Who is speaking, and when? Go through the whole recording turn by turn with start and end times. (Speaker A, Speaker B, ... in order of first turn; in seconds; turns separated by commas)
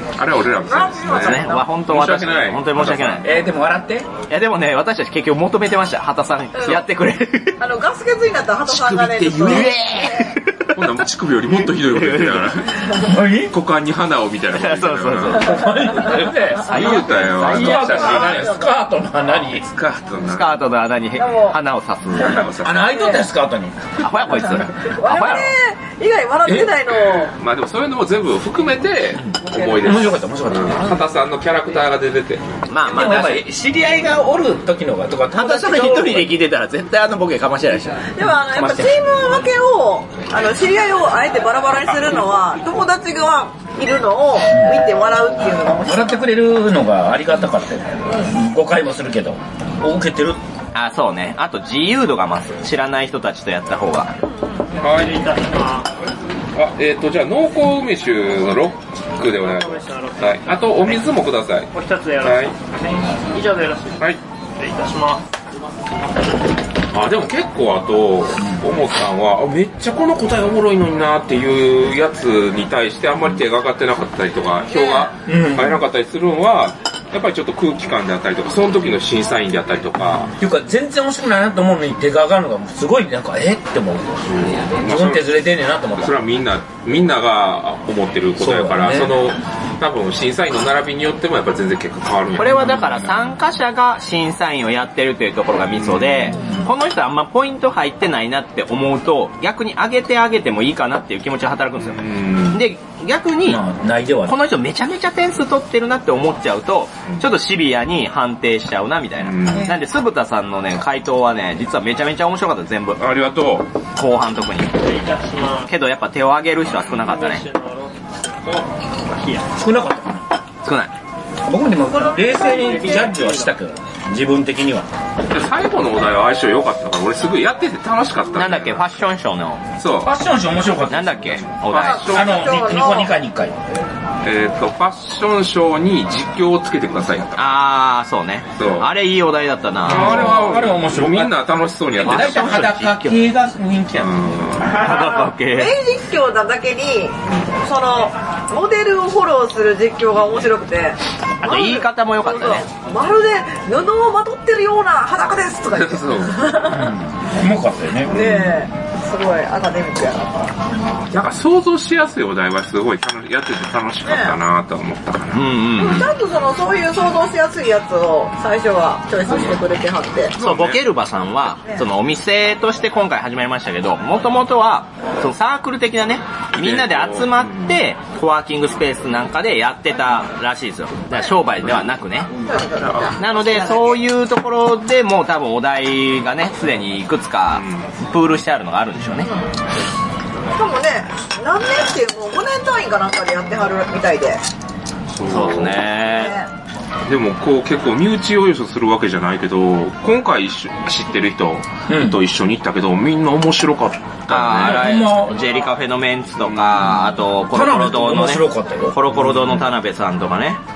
Speaker A: 0.2-3.3, Speaker B: 0.7-1.7, Speaker C: 1.1-3.3, Speaker D: 3.2-4.1, Speaker C: 4.3-7.6, Speaker B: 7.6-10.4, Speaker D: 8.9-9.8, Speaker C: 9.4-10.8, Speaker A: 10.7-12.9, Speaker C: 11.7-12.6, Speaker D: 13.0-13.5, Speaker A: 13.5-15.6, Speaker C: 14.5-16.1, Speaker D: 15.4-19.7, Speaker A: 16.6-18.6, Speaker C: 16.7-17.9, Speaker B: 17.7-18.7, Speaker A: 19.6-20.6, Speaker C: 20.2-22.5, Speaker B: 21.2-21.6, Speaker A: 22.1-22.8, Speaker D: 22.6-24.1, Speaker B: 22.9-23.3, Speaker C: 24.0-25.5, Speaker B: 24.8-27.3, Speaker D: 26.5-26.7, Speaker A: 27.4-32.4, Speaker D: 29.2-31.0, Speaker C: 32.7-33.4, Speaker D: 32.9-36.4, Speaker C: 35.3-38.9, Speaker B: 38.2-46.3, Speaker D: 38.5-38.9, Speaker A: 41.9-42.2, Speaker D: 45.8-50.4, Speaker C: 50.7-54.1, Speaker A: 54.8-55.2, Speaker E: 54.8-55.9, Speaker A: 56.5-62.5, Speaker E: 59.3-61.1, Speaker E: 61.7-62.5, Speaker E: 63.3-65.2, Speaker A: 66.9-80.3, Speaker B: 74.7-75.1, Speaker D: 75.2-75.8, Speaker D: 80.3-86.1, Speaker A: 84.2-85.3, Speaker A: 86.0-93.4, Speaker D: 88.4-89.2, Speaker C: 92.4-103.6, Speaker A: 95.7-96.5, Speaker A: 101.8-102.6, Speaker D: 103.5-104.4, Speaker C: 104.3-113.0, Speaker A: 109.2-109.7, Speaker A: 113.0-113.7, Speaker C: 114.0-114.7, Speaker E: 114.8-115.7, Speaker C: 115.7-117.5, Speaker E: 117.0-119.5, Speaker D: 119.6-120.3, Speaker C: 120.6-120.9, Speaker D: 121.5-124.9, Speaker E: 122.0-123.5, Speaker B: 122.2-123.1, Speaker A: 125.3-129.0, Speaker C: 128.4-129.6, Speaker A: 129.8-130.2, Speaker D: 130.0-131.4, Speaker C: 130.9-132.1, Speaker A: 131.5-132.5, Speaker B: 131.8-133.1, Speaker D: 132.1-133.6, Speaker A: 134.2-137.5, Speaker C: 137.4-140.4, Speaker A: 138.6-138.9, Speaker D: 139.9-141.4, Speaker A: 139.9-142.7, Speaker D: 142.0-144.3, Speaker C: 142.0-143.2, Speaker A: 144.0-144.9, Speaker C: 144.7-145.8, Speaker B: 145.5-156.9, Speaker C: 151.4-152.7, Speaker A: 155.7-156.6, Speaker D: 156.7-158.5, Speaker B: 158.1-160.3, Speaker A: 161.1-165.9, Speaker B: 164.1-164.4, Speaker C: 165.3-166.1, Speaker B: 165.8-170.3, Speaker A: 170.3-170.8, Speaker C: 170.4-182.3, Speaker A: 176.6-177.8, Speaker B: 182.5-183.9, Speaker A: 182.8-183.6, Speaker C: 183.2-189.3, Speaker A: 187.5-187.9, Speaker B: 190.6-194.4, Speaker A: 195.1-195.9, Speaker C: 195.3-196.4, Speaker B: 196.1-196.5, Speaker A: 197.1-204.8, Speaker D: 201.9-202.2, Speaker C: 204.3-210.6, Speaker D: 204.4-205.4, Speaker A: 206.4-207.0, Speaker D: 207.5-209.0, Speaker A: 209.1-209.7